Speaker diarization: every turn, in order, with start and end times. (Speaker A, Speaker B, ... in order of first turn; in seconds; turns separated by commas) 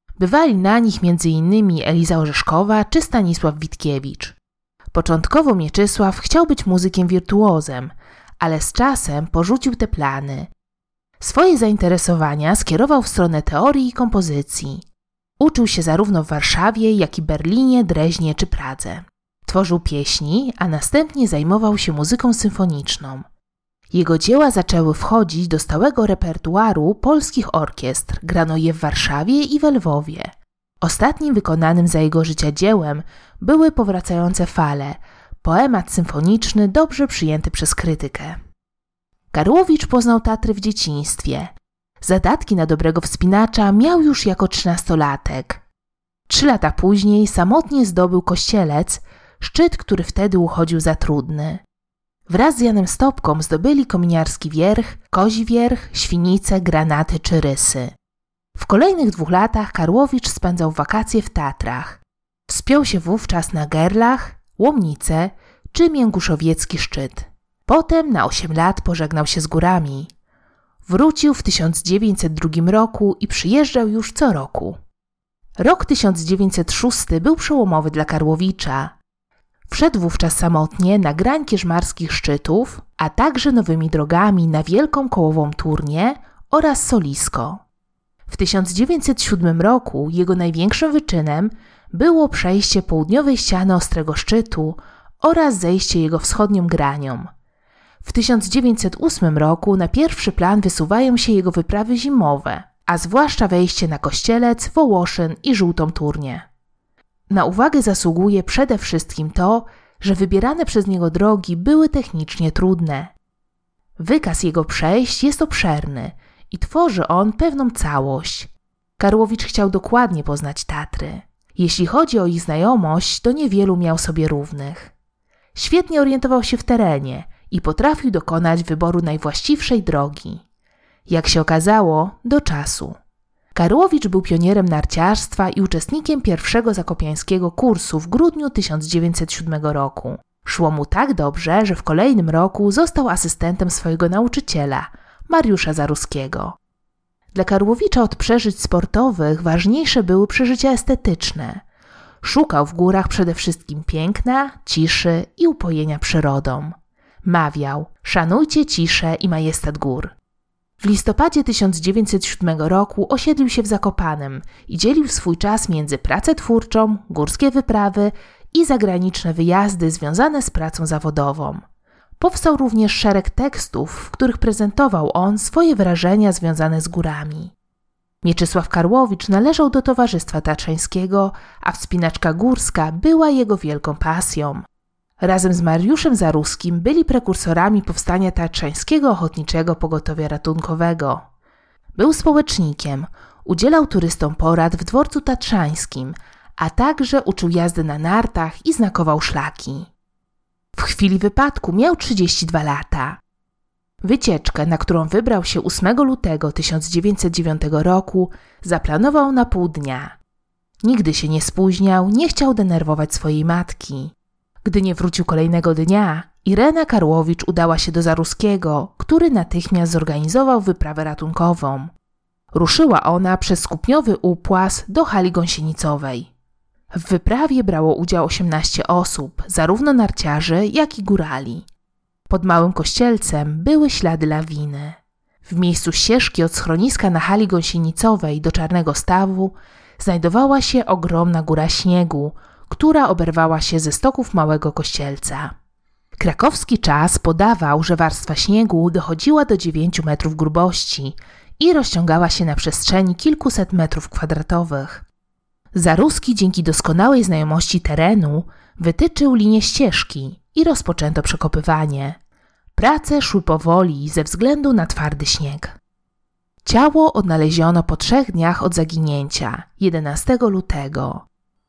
Speaker A: 0.2-4.4, Speaker A: 4.9-10.5, Speaker A: 11.2-14.8, Speaker A: 15.4-23.2, Speaker A: 23.9-38.4, Speaker A: 39.3-45.6, Speaker A: 46.3-51.6, Speaker A: 52.3-57.9, Speaker A: 58.5-70.1, Speaker A: 70.8-74.8, Speaker A: 75.6-79.0, Speaker A: 79.7-87.6, Speaker A: 88.3-97.3, Speaker A: 98.0-106.4, Speaker A: 107.3-113.1, Speaker A: 114.0-124.9, Speaker A: 125.5-130.4, Speaker A: 131.1-133.0, Speaker A: 133.5-146.6, Speaker A: 147.3-151.6, Speaker A: 152.2-160.1, Speaker A: 160.8-171.6, Speaker A: 172.2-177.5, Speaker A: 178.2-184.6, Speaker A: 185.2-191.2, Speaker A: 191.9-199.9, Speaker A: 200.7-203.2, Speaker A: 204.0-210.2, Speaker A: 210.8-214.1, Speaker A: 214.6-221.9, Speaker A: 222.5-226.3, Speaker A: 226.9-231.7, Speaker A: 232.3-245.5, Speaker A: 246.2-255.0, Speaker A: 255.7-262.2, Speaker A: 262.8-265.8, Speaker A: 266.6-271.2